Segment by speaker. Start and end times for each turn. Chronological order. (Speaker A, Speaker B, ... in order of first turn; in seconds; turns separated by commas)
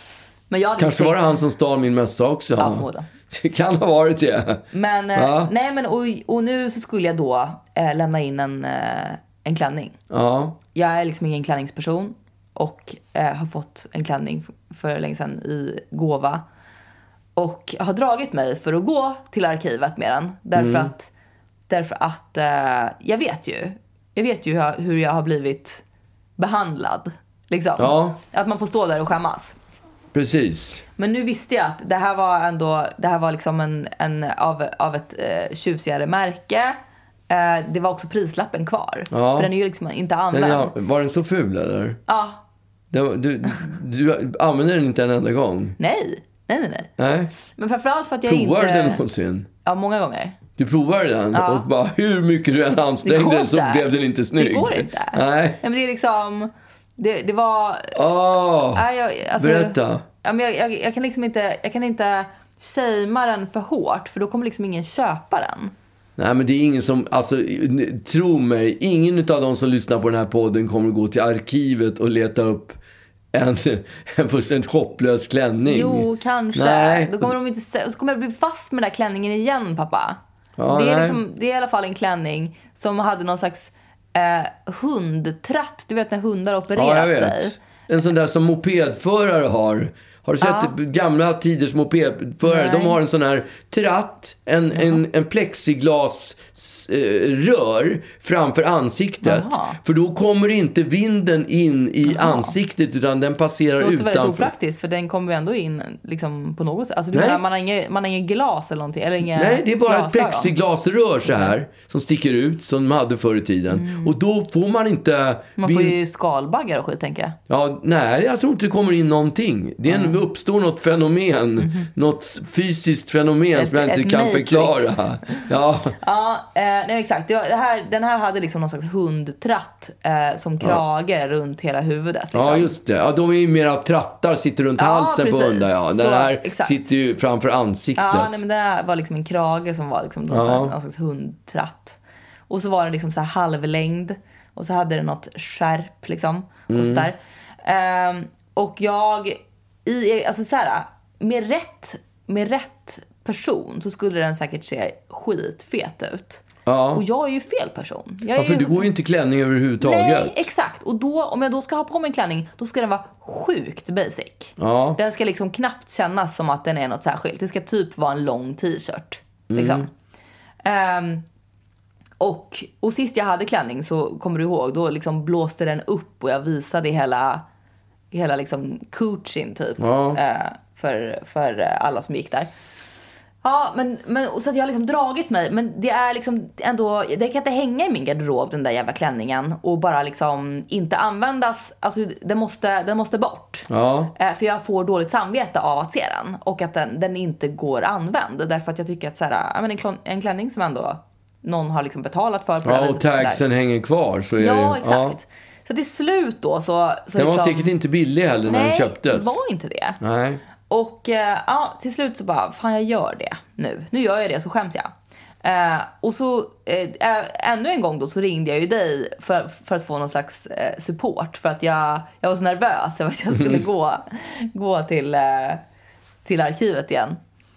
Speaker A: 0.5-1.4, Speaker B: 0.8-4.6, Speaker A: 2.6-3.1, Speaker A: 4.7-9.9, Speaker B: 5.1-5.5, Speaker B: 10.1-10.6, Speaker A: 10.7-16.4, Speaker A: 17.4-21.1, Speaker B: 20.6-20.9, Speaker A: 21.7-25.8, Speaker A: 26.4-29.6, Speaker B: 27.8-28.2, Speaker B: 30.1-30.8, Speaker A: 31.0-36.8, Speaker A: 37.3-40.7, Speaker B: 39.1-39.5, Speaker B: 40.3-42.0, Speaker A: 42.1-42.4, Speaker B: 42.9-45.8, Speaker A: 45.8-46.9, Speaker B: 47.0-47.3, Speaker A: 47.4-49.0, Speaker B: 48.2-49.5, Speaker A: 49.6-50.4, Speaker B: 50.6-55.6, Speaker A: 51.3-51.6, Speaker A: 53.0-58.0, Speaker B: 57.9-58.8, Speaker A: 58.7-65.7, Speaker B: 59.4-60.0, Speaker B: 66.2-72.8, Speaker B: 73.3-77.3, Speaker A: 75.6-87.5, Speaker B: 80.6-81.2, Speaker B: 86.7-104.5, Speaker A: 90.4-90.7, Speaker A: 92.4-93.0, Speaker A: 94.7-95.0, Speaker A: 99.2-99.8, Speaker A: 102.0-102.5, Speaker A: 103.8-110.5, Speaker B: 107.1-107.4, Speaker B: 109.3-115.9, Speaker A: 111.2-111.5, Speaker A: 113.7-114.1, Speaker A: 115.6-117.4, Speaker B: 117.5-126.0, Speaker A: 119.9-120.2, Speaker A: 121.6-121.9, Speaker A: 123.5-125.4, Speaker A: 126.0-132.7, Speaker B: 132.3-138.3, Speaker A: 134.8-136.8, Speaker A: 138.0-142.0, Speaker B: 140.3-140.7, Speaker A: 142.5-158.9, Speaker B: 146.7-147.1, Speaker B: 156.7-157.0, Speaker B: 158.3-160.4, Speaker A: 159.8-169.9, Speaker B: 164.6-165.0, Speaker B: 169.5-169.9, Speaker A: 170.6-171.2, Speaker A: 172.2-177.4, Speaker A: 178.1-182.5, Speaker B: 179.8-180.2, Speaker A: 183.4-203.4, Speaker B: 193.7-194.1, Speaker B: 202.6-205.2, Speaker A: 204.4-207.7, Speaker B: 207.2-209.4, Speaker A: 208.5-210.0, Speaker B: 210.0-210.4, Speaker A: 210.7-214.9, Speaker A: 215.4-225.6, Speaker B: 223.3-223.6, Speaker A: 226.2-227.2